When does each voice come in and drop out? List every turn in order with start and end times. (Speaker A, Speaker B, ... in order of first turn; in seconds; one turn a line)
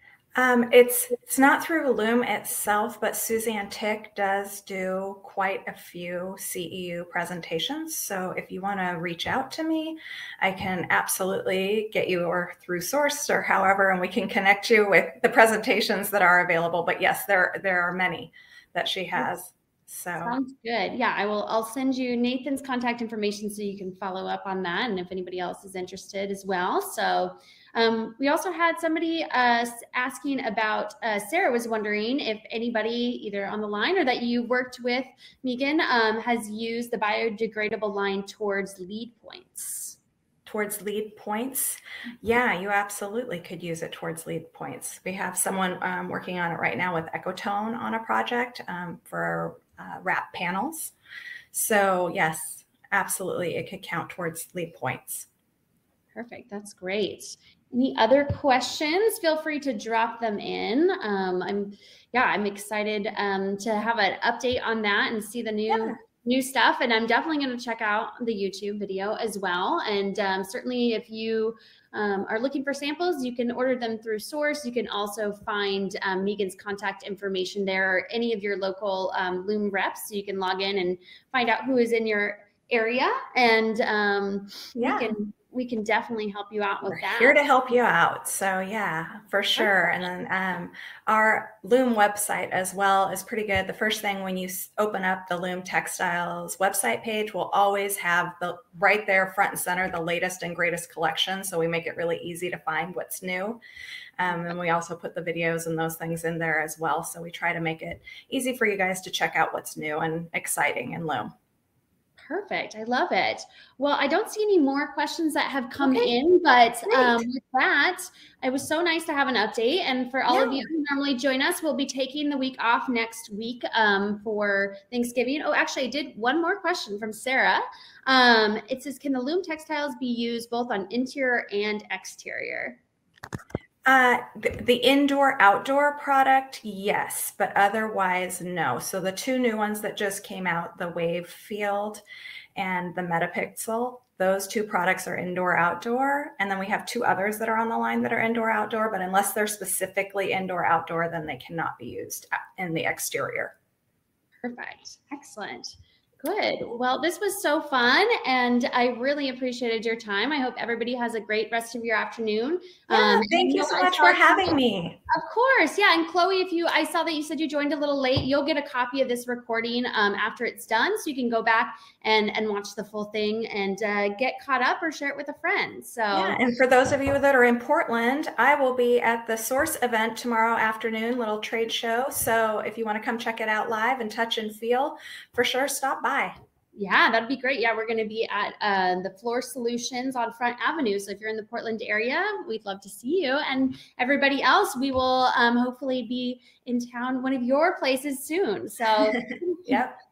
Speaker A: 0.3-20.4
Speaker B: 20.2-40.0
Speaker A: 40.5-50.9
Speaker A: 51.5-55.3
Speaker B: 56.1-87.4
Speaker A: 65.7-65.9
Speaker A: 84.8-85.1
Speaker A: 86.9-103.6
Speaker A: 104.2-111.3
Speaker B: 112.2-132.8
Speaker A: 115.8-116.1
Speaker A: 116.9-117.2
Speaker A: 120.3-120.7
Speaker A: 133.9-142.0
Speaker A: 142.6-153.5
Speaker B: 154.4-164.6
Speaker A: 162.9-165.0
Speaker B: 165.1-176.4
Speaker A: 176.1-186.3
Speaker B: 186.8-199.8
Speaker A: 199.0-199.9